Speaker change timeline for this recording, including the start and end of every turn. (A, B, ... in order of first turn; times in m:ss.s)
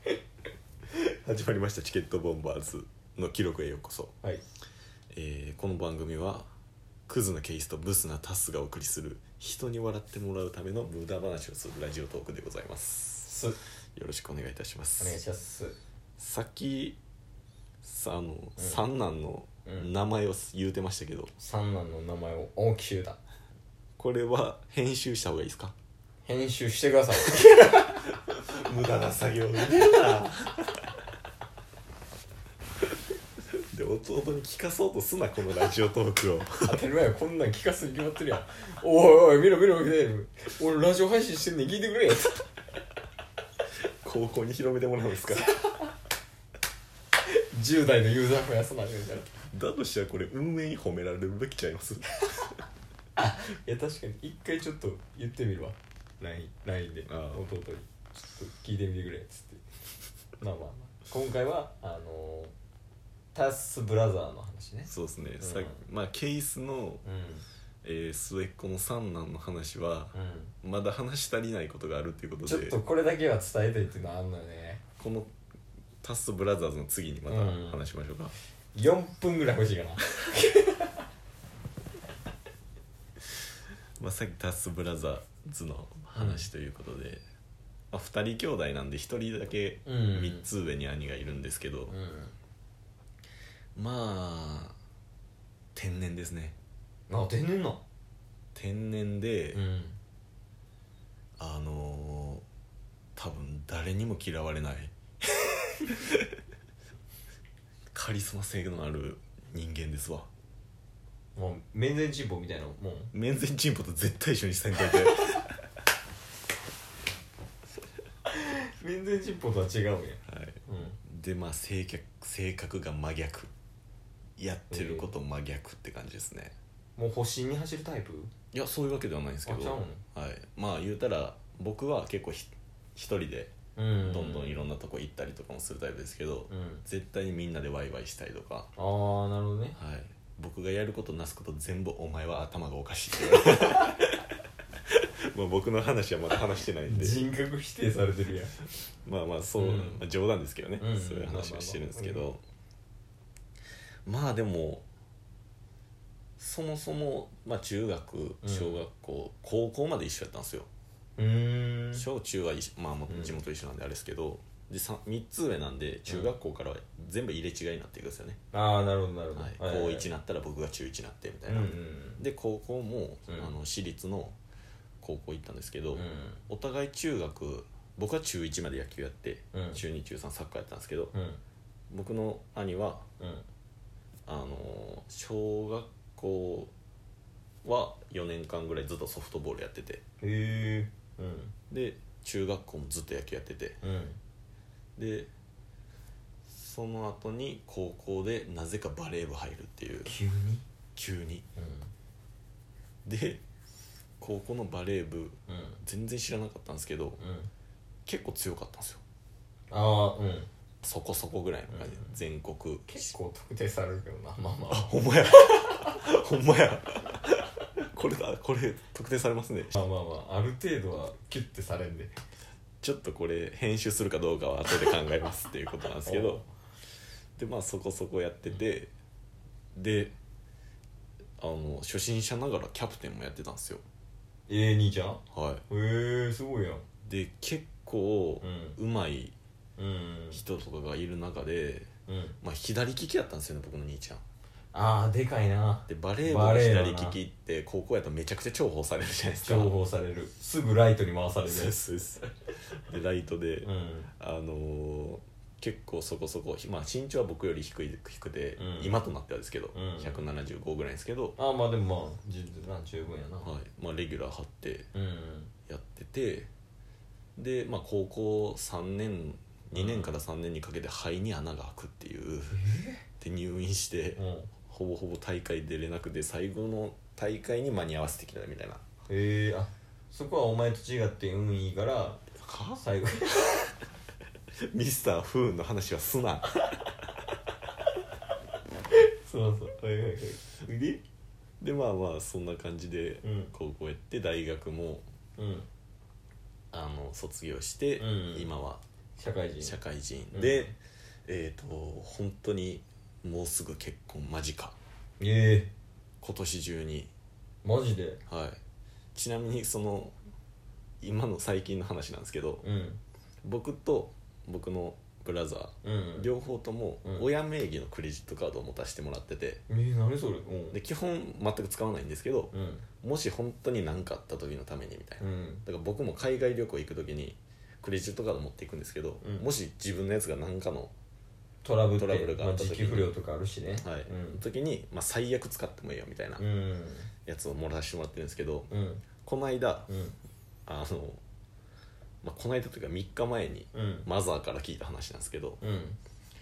0:00.9-0:04.1 A
0:05.1-0:06.5 A
0:07.1-0:13.4 A
0:13.2-0:13.6 B
0:14.0-0:15.2 A
0:15.0-0:15.8 B
0:16.2-0:17.0 A
0:17.8-0:21.3 A
0:21.4-0:23.2 B
0:24.0-0:25.8 A
0:26.2-0:27.8 B
0:27.4-0:30.8 A
0:33.5-0:36.8 A
0:36.6-0:42.4 B
0:44.0-0:45.7 A
0:47.3-0:49.3 B
0:49.5-0:52.6 A
0:53.2-0:59.6 B
0:57.1-0:57.4 A
1:00.4-1:02.5 B
1:03.3-1:04.9 B
1:04.9-1:07.0 A
1:05.4-1:05.8 B
1:07.0-1:07.5 B
1:07.8-1:12.8 A
1:10.1-1:10.5 B
1:12.4-1:14.8 B
1:15.0-1:15.3 A
1:16.0-1:18.3 A
1:17.3-1:17.8 B
1:18.7-1:21.1 B
1:24.0-1:27.2 A
1:26.2-1:26.5 B
1:27.9-1:32.0 A
1:29.8-1:30.5 B
1:31.9-1:32.4 B
1:33.8-1:34.8 A
1:35.8-1:36.6 A
1:37.1-1:37.8 B
1:38.6-1:39.6 A
1:39.5-1:40.0 B
1:41.4-1:42.4 A
1:43.2-1:44.9 A
1:45.9-1:46.2 A
1:47.9-1:50.3 A
1:51.4-1:53.1 B
1:53.1-1:55.5 A
1:58.3-2:01.0 B
2:00.3-2:03.5 A
2:04.4-2:06.6 A
2:04.7-2:05.1 B
2:07.0-2:08.3 B
2:08.5-2:18.7 A
2:09.5-2:10.0 B
2:13.8-2:14.6 B
2:16.5-2:16.8 B
2:18.8-2:19.8 B
2:19.8-2:24.3 A
2:24.9-2:27.3 A
2:26.9-2:28.7 B
2:28.8-2:32.4 A
2:29.6-2:30.0 B
2:30.8-2:32.3 B
2:34.1-2:34.8 A
2:36.4-2:40.7 A
2:38.4-2:38.8 B
2:41.2-2:42.1 B
2:42.0-2:48.4 A
2:43.1-2:43.4 B
2:48.5-2:50.1 B
2:49.4-2:54.4 A
2:51.5-2:52.2 B
2:55.0-3:01.1 A
2:55.9-2:56.4 B
2:59.5-2:59.8 B
3:01.1-3:01.4 B
3:01.9-3:03.1 A
3:03.2-3:03.5 B
3:04.3-3:06.7 A
3:07.6-3:10.0 A
3:10.2-3:11.5 B
3:11.7-3:13.8 A
3:13.8-3:14.2 B
3:15.0-3:15.3 A
3:16.5-3:20.2 A
3:20.0-3:20.6 B
3:21.0-3:21.4 A
3:21.6-3:21.9 B
3:23.1-3:23.4 A
3:24.2-3:27.2 A
3:25.5-3:25.8 B
3:27.2-3:27.5 B
3:28.1-3:29.0 A
3:29.7-3:30.5 B
3:30.8-3:33.1 A
3:31.7-3:32.1 B
3:32.9-3:35.6 B
3:34.7-3:39.8 A
3:39.8-3:42.2 B
3:42.8-3:46.4 A
3:46.0-3:46.5 B
3:47.4-3:48.9 A
3:49.8-3:50.1 A
3:51.4-3:53.8 A
3:54.5-3:56.9 B
3:55.3-3:55.6 A
3:57.0-3:59.3 A
3:58.4-3:58.8 B
3:59.8-4:00.4 B
4:00.3-4:01.9 A
4:02.1-4:02.4 B
4:02.4-4:04.2 A
4:04.7-4:07.2 B
4:05.9-4:09.7 A
4:09.4-4:11.7 B
4:11.5-4:21.4 A
4:13.6-4:14.1 B
4:18.6-4:18.9 B
4:19.7-4:20.2 B
4:21.4-4:23.5 B
4:23.4-4:24.9 A
4:24.9-4:25.5 B
4:25.7-4:26.5 A
4:27.4-4:32.6 A
4:29.7-4:30.2 B
4:32.5-4:33.0 B
4:33.2-4:38.8 A
4:34.2-4:34.5 B
4:39.1-4:42.2 B
4:42.4-4:42.8 A
4:42.8-4:43.7 B
4:44.6-4:46.8 A
4:48.9-4:51.0 B
4:51.6-4:55.1 A
4:53.2-4:53.5 B
4:55.4-4:55.7 B
4:56.7-4:58.8 A
4:58.0-4:58.5 B
4:59.2-4:59.8 B
4:59.6-5:04.8 A
5:00.3-5:00.7 B
5:05.2-5:05.7 B
5:06.2-5:07.1 A
5:07.6-5:08.2 B
5:08.3-5:08.6 A
5:09.2-5:10.2 A
5:11.0-5:12.6 A
5:12.6-5:13.0 B
5:13.4-5:19.6 A
5:15.8-5:16.3 B
5:19.7-5:20.8 B
5:20.7-5:30.9 A
5:22.5-5:22.8 B
5:25.2-5:25.6 B
5:29.2-5:29.5 B
5:31.6-5:34.4 B
5:32.0-5:33.1 A
5:33.8-5:36.4 A
5:36.4-5:37.1 B
5:37.3-5:38.7 A
5:38.7-5:39.0 B
5:39.2-5:39.9 A
5:39.9-5:40.2 B
5:40.7-5:41.2 A
5:42.2-5:45.6 A
5:43.7-5:44.1 B
5:45.6-5:46.0 B